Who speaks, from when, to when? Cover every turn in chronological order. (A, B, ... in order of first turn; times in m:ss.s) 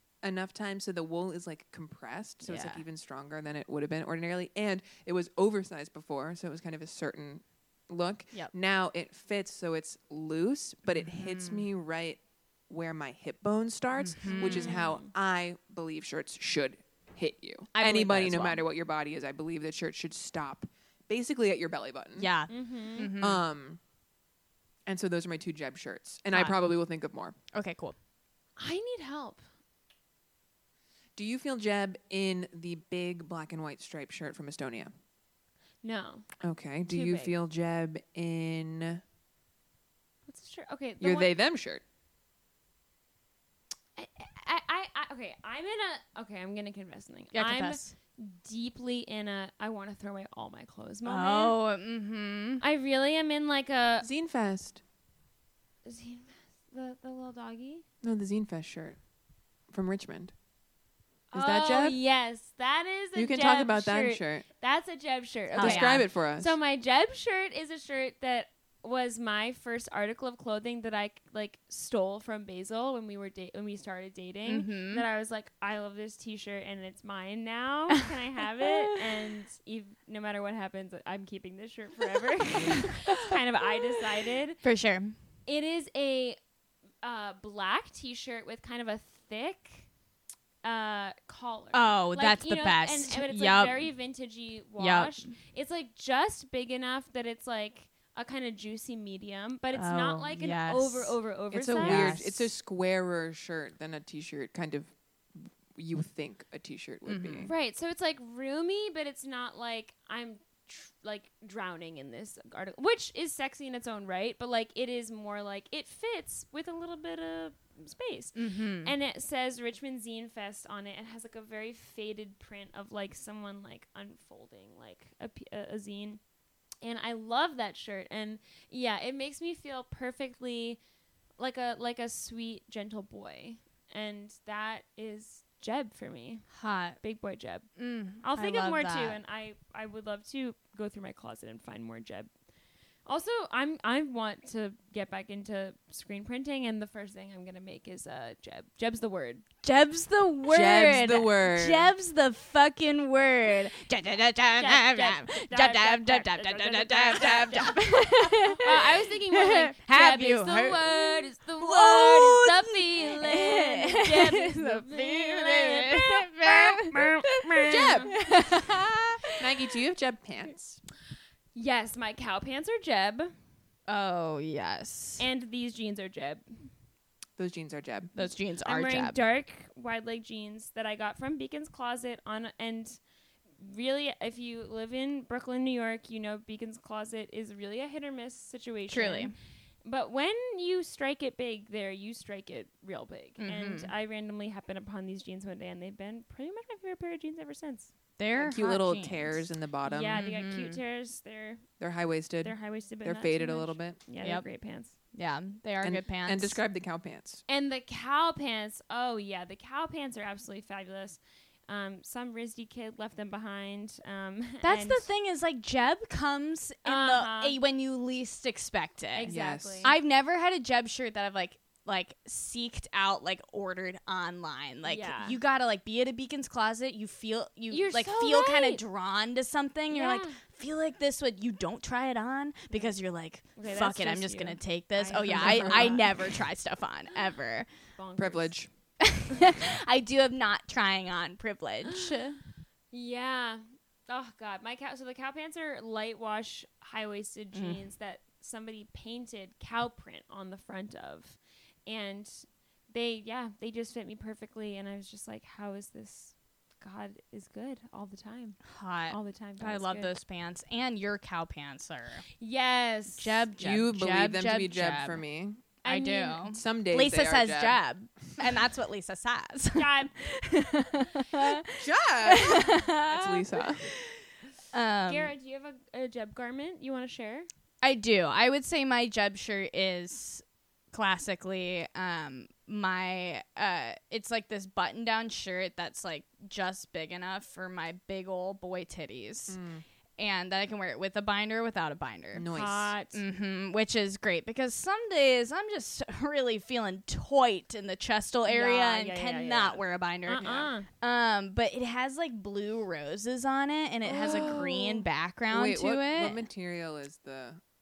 0:00.2-0:22.3 A
0:02.4-0:02.8 B
0:10.9-0:11.6 B
0:14.0-0:14.8 B
0:14.2-0:15.1 C
0:17.7-0:18.6 B
0:22.2-0:23.4 B
0:22.5-0:23.1 C
0:23.2-0:23.8 A
0:24.8-0:27.4 A
0:26.3-0:26.6 B
0:27.5-0:28.0 B
0:28.6-0:29.4 C
0:31.2-0:34.9 A
0:35.8-0:36.3 C
0:36.4-0:39.0 A
0:36.8-0:37.3 C
0:40.3-0:41.3 C
0:41.0-0:41.8 A
0:44.0-0:51.6 C
0:47.3-0:47.9 B
0:51.0-0:52.6 B
0:52.6-0:54.1 C
0:54.0-0:54.8 A
0:55.8-0:57.8 C
0:58.0-0:59.0 A
0:59.7-1:00.3 A
1:01.3-1:24.6 C
1:01.3-1:02.0 A
1:03.1-1:04.4 A
1:05.5-1:06.0 B
1:05.5-1:06.5 A
1:14.5-1:15.0 B
1:22.5-1:23.4 B
1:24.6-1:25.2 B
1:25.5-1:26.4 C
1:27.0-1:29.8 C
1:30.6-1:42.2 C
1:31.7-1:33.9 B
1:34.8-1:35.3 B
1:39.7-1:41.2 B
1:41.5-1:47.5 A
1:41.8-1:42.5 B
1:47.0-1:47.5 B
1:47.4-2:06.2 C
1:58.4-1:58.9 B
2:06.8-2:10.8 C
2:11.4-2:16.5 C
2:16.5-2:17.0 B
2:17.0-2:17.7 C
2:17.8-2:19.2 B
2:18.2-2:22.3 C
2:23.0-2:29.4 C
2:29.6-2:49.5 B
2:30.5-2:31.9 A
2:34.6-2:48.2 C
2:47.6-2:48.2 A
2:49.4-2:50.8 A
2:51.5-2:53.3 C
2:53.9-2:55.2 B
2:55.2-2:56.4 C
2:57.4-2:58.1 A
2:58.2-2:59.2 B
2:58.6-3:03.0 C
3:03.6-3:09.3 C
3:08.9-3:09.3 B
3:09.8-3:17.9 C
3:13.4-3:13.9 B
3:18.2-3:19.4 B
3:18.3-3:20.2 A
3:19.8-3:21.6 C
3:20.1-3:20.8 B
3:21.8-3:24.0 A
3:22.4-3:24.9 C
3:24.2-3:24.4 B
3:25.1-3:26.6 B
3:25.8-3:27.4 A
3:27.5-3:35.1 C
3:34.6-3:57.7 B
3:36.8-3:37.6 C
3:39.1-3:39.9 C
3:39.2-3:39.9 A
3:44.8-3:45.4 C
3:47.7-3:48.8 C
3:49.9-3:50.4 C
3:53.6-3:56.1 C
3:55.3-3:56.0 A
3:58.0-3:58.5 C
3:58.2-3:58.7 A
3:59.0-4:02.4 B
4:02.9-4:18.6 C
4:07.5-4:07.8 B
4:18.7-4:22.2 B
4:19.1-4:20.1 C
4:22.4-4:23.4 C
4:23.2-4:25.2 B
4:23.6-4:25.6 A
4:25.8-4:26.4 C
4:25.8-4:33.9 B
4:26.4-4:27.8 A
4:29.8-4:30.1 C
4:31.8-4:33.8 A
4:34.7-4:35.3 B
4:35.1-4:37.5 C
4:37.8-4:49.6 B
4:49.5-4:49.8 A
4:50.2-4:52.5 B
4:52.3-4:52.9 A
4:52.5-4:53.2 C
4:53.1-5:06.4 B
4:58.4-5:00.9 C
5:00.4-5:00.7 A
5:04.1-5:04.8 A
5:04.1-5:05.0 C
5:05.5-5:07.6 A